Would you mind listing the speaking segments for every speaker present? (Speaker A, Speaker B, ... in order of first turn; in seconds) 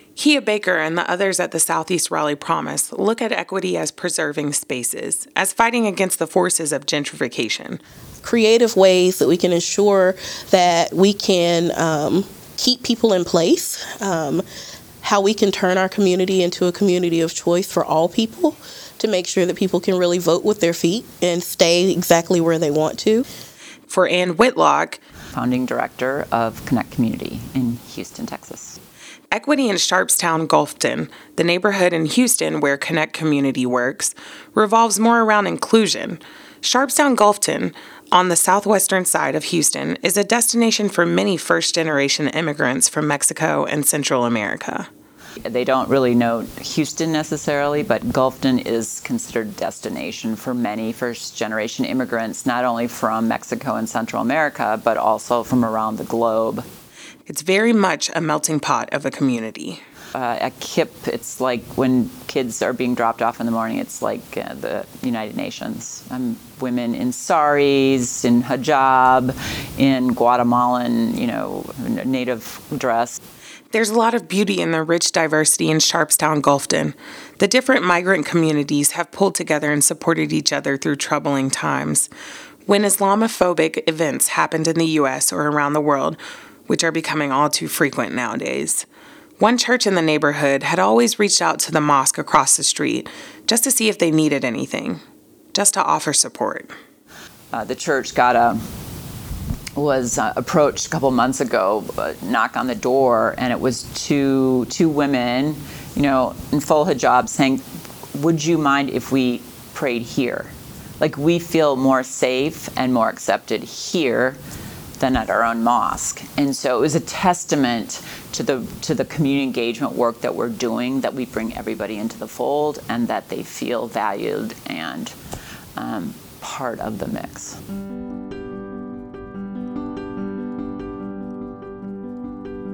Speaker A: 0.2-7.8, 23.9-25.0, 29.3-44.9, 57.3-59.8, 73.7-82.1, 82.7-88.9, 89.4-95.0, 95.5-96.7
Speaker B: 8.2-14.4, 15.0-23.2
Speaker C: 25.3-28.8, 45.4-56.7, 60.1-73.2, 97.5-98.6, 99.8-114.4, 115.0-125.2, 125.8-127.6